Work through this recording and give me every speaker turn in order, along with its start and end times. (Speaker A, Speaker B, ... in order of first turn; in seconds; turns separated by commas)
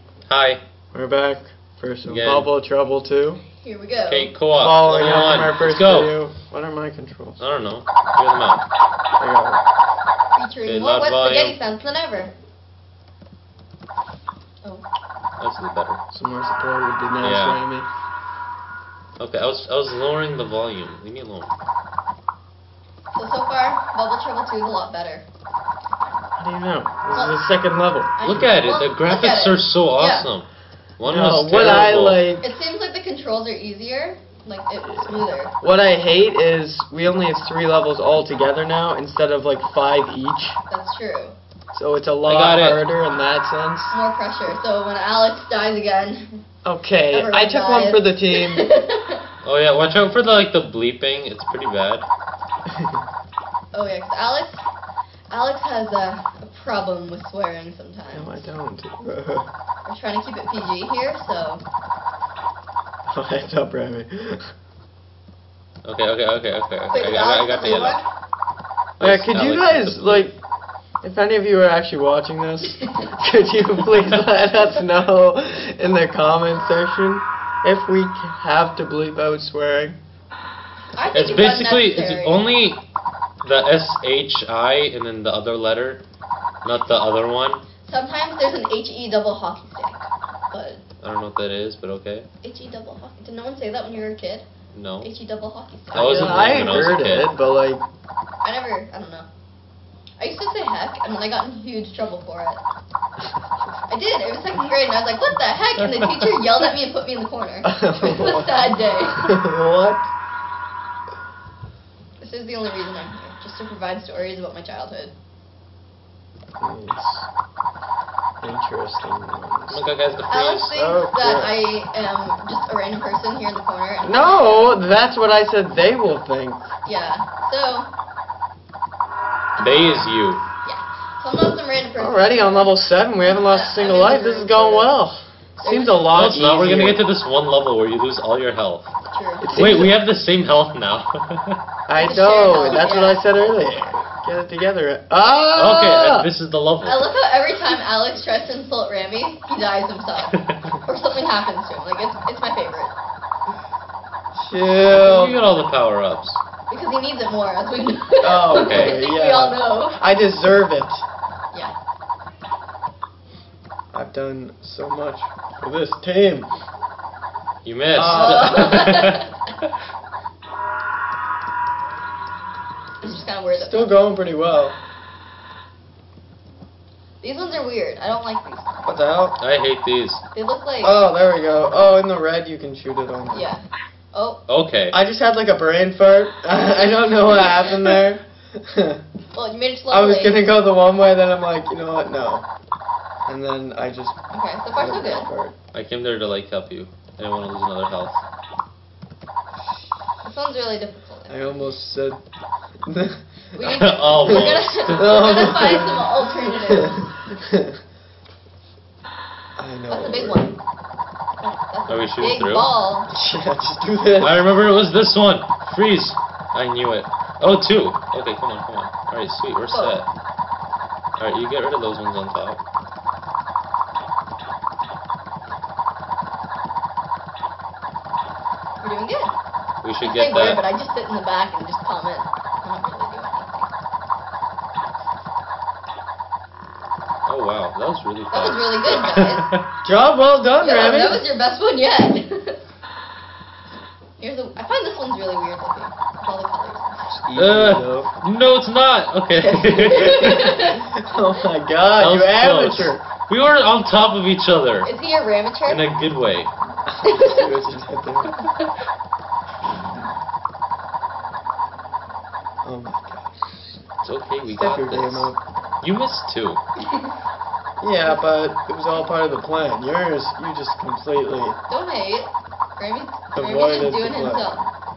Speaker A: 0.3-0.6, Speaker B: 0.9-3.4, Speaker A: 2.1-2.5, Speaker C: 3.6-4.3, Speaker A: 4.0-6.2, Speaker B: 4.5-7.4, Speaker A: 7.4-8.6, Speaker B: 9.2-9.6, Speaker C: 10.3-12.3, Speaker A: 10.6-11.6, Speaker A: 15.4-16.0, Speaker B: 16.1-17.9, Speaker A: 17.2-17.6, Speaker A: 19.2-21.5, Speaker C: 23.1-25.2, Speaker B: 26.4-28.1, Speaker C: 27.1-27.4, Speaker C: 28.2-30.3, Speaker A: 28.2-30.5, Speaker A: 31.0-32.3, Speaker B: 31.0-32.5, Speaker C: 32.4-35.5, Speaker B: 34.8-40.6, Speaker C: 40.7-41.4, Speaker B: 41.7-43.9, Speaker A: 42.2-42.8, Speaker C: 43.9-46.4, Speaker B: 46.6-48.7, Speaker C: 47.1-49.2, Speaker A: 49.4-52.0, Speaker B: 52.7-53.0, Speaker C: 53.7-54.7, Speaker C: 55.3-58.4, Speaker B: 58.1-59.5, Speaker C: 59.8-61.6, Speaker B: 63.1-64.5, Speaker A: 65.8-68.0, Speaker C: 66.9-68.0, Speaker A: 69.0-70.3, Speaker B: 69.0-70.3, Speaker B: 71.0-80.0, Speaker C: 72.8-73.1, Speaker C: 80.9-82.5, Speaker A: 81.1-82.8, Speaker A: 83.4-86.0, Speaker A: 86.6-87.6, Speaker C: 87.8-90.8, Speaker A: 91.0-92.3, Speaker C: 92.4-94.5, Speaker A: 94.7-95.1, Speaker C: 95.0-96.5, Speaker A: 95.9-97.3, Speaker B: 95.9-97.8, Speaker C: 98.4-99.3, Speaker C: 100.2-102.6, Speaker C: 103.9-109.4, Speaker B: 107.6-110.1, Speaker C: 112.2-115.1, Speaker B: 116.6-117.3, Speaker B: 118.4-119.8, Speaker A: 119.7-120.8, Speaker C: 120.3-124.8, Speaker B: 120.7-121.7, Speaker B: 124.0-126.7, Speaker C: 126.8-127.9, Speaker C: 129.6-130.1, Speaker A: 129.6-130.4, Speaker C: 130.6-135.0, Speaker B: 132.0-137.1, Speaker C: 135.6-136.3, Speaker A: 136.1-138.9, Speaker C: 139.1-139.8, Speaker B: 139.4-140.0, Speaker A: 139.5-141.6, Speaker B: 141.9-146.3, Speaker C: 142.0-143.5, Speaker A: 145.5-147.1, Speaker C: 146.8-152.9, Speaker B: 154.3-155.4, Speaker A: 154.8-156.4, Speaker C: 156.7-159.9, Speaker B: 158.2-161.0, Speaker A: 158.5-159.0, Speaker B: 163.9-166.5, Speaker A: 167.6-169.2, Speaker B: 167.9-168.8, Speaker C: 168.1-169.3, Speaker C: 173.0-174.1, Speaker B: 173.5-174.8, Speaker C: 177.2-179.0, Speaker B: 178.8-179.4, Speaker A: 179.4-180.2, Speaker C: 180.3-181.0, Speaker B: 180.8-183.5, Speaker C: 183.3-184.4, Speaker A: 184.5-185.0, Speaker B: 184.9-189.0, Speaker C: 189.3-190.4, Speaker B: 189.9-192.4, Speaker B: 193.3-194.2, Speaker C: 194.3-195.3, Speaker B: 194.7-195.5, Speaker A: 195.7-198.2, Speaker C: 200.2-201.6, Speaker B: 201.3-202.2, Speaker B: 202.8-203.2, Speaker C: 203.5-207.1, Speaker A: 203.6-205.8, Speaker B: 204.2-207.7, Speaker B: 209.6-210.5, Speaker C: 209.9-210.6, Speaker C: 211.4-213.1, Speaker A: 211.9-212.7, Speaker B: 213.1-214.6, Speaker A: 214.2-220.1, Speaker C: 219.7-220.0, Speaker A: 221.2-222.6, Speaker C: 228.8-229.3, Speaker A: 229.8-230.6, Speaker C: 230.0-233.7, Speaker A: 237.2-239.6, Speaker C: 238.3-239.5, Speaker B: 239.8-241.2, Speaker C: 240.6-242.6, Speaker C: 244.2-247.1, Speaker B: 247.2-248.1, Speaker A: 247.3-250.6, Speaker B: 249.5-253.0, Speaker C: 249.7-250.8, Speaker A: 252.0-254.9, Speaker C: 254.8-255.8, Speaker A: 255.6-256.5, Speaker B: 256.9-258.3, Speaker C: 257.0-257.5, Speaker B: 262.6-263.4, Speaker A: 264.0-266.6, Speaker B: 264.5-265.4, Speaker C: 266.9-267.1, Speaker B: 267.8-271.6, Speaker C: 271.7-274.6, Speaker B: 273.3-274.7